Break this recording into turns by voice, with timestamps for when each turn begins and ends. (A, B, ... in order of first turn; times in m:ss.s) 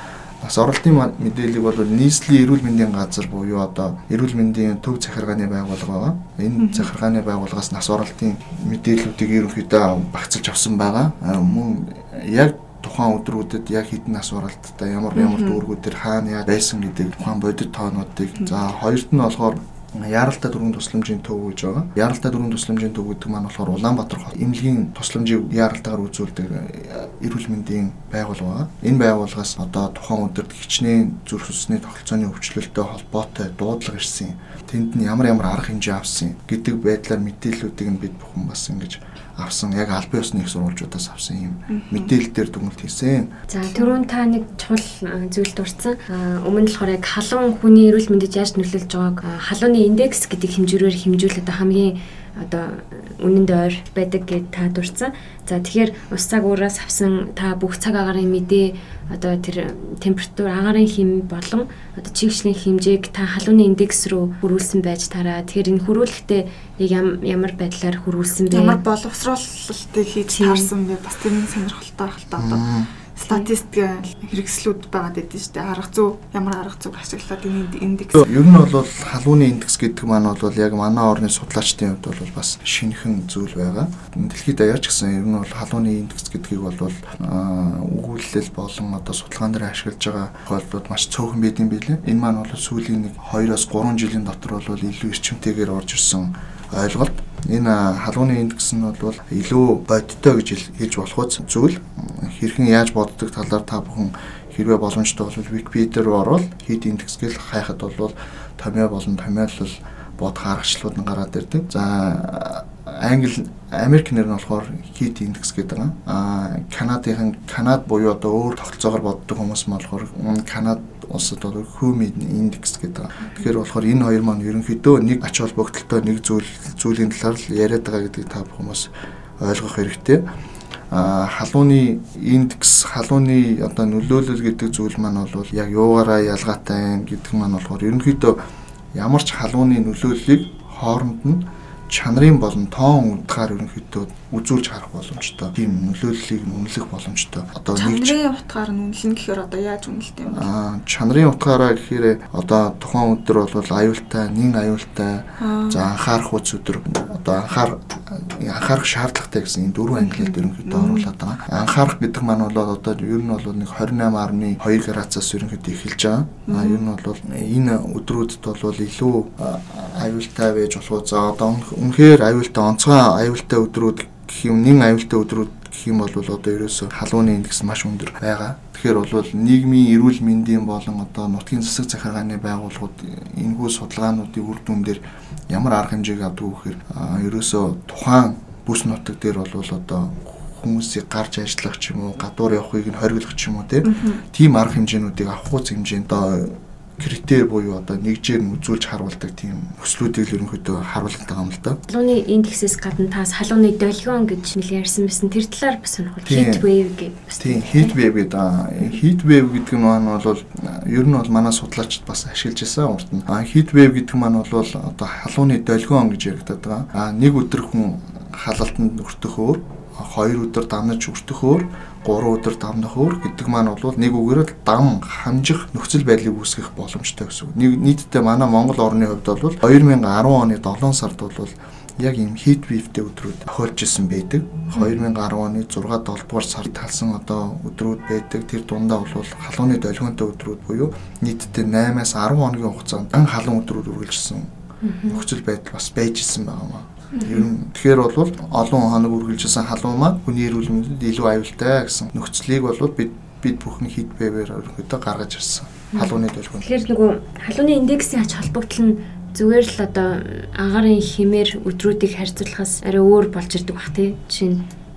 0:00.4-0:43.3 A
0:06.6-0:06.9 B
0:15.2-0:15.6 B
0:41.7-0:42.1 B
0:43.5-1:08.8 C
1:08.5-1:18.4 B
1:10.3-1:10.7 C
1:12.4-1:12.9 A
1:18.2-2:10.2 A
2:10.9-2:18.4 A
2:18.9-2:28.2 A
2:27.7-2:30.5 B
2:30.3-3:21.8 A
2:35.4-2:35.8 B
2:40.0-2:41.1 B
2:46.5-2:46.8 B
3:13.8-3:14.2 B
3:21.9-3:28.0 C
3:26.2-3:26.7 A
3:27.4-4:04.5 A
4:04.8-4:05.2 C
4:05.1-4:16.7 A
4:07.1-4:07.5 B
4:15.9-4:24.6 C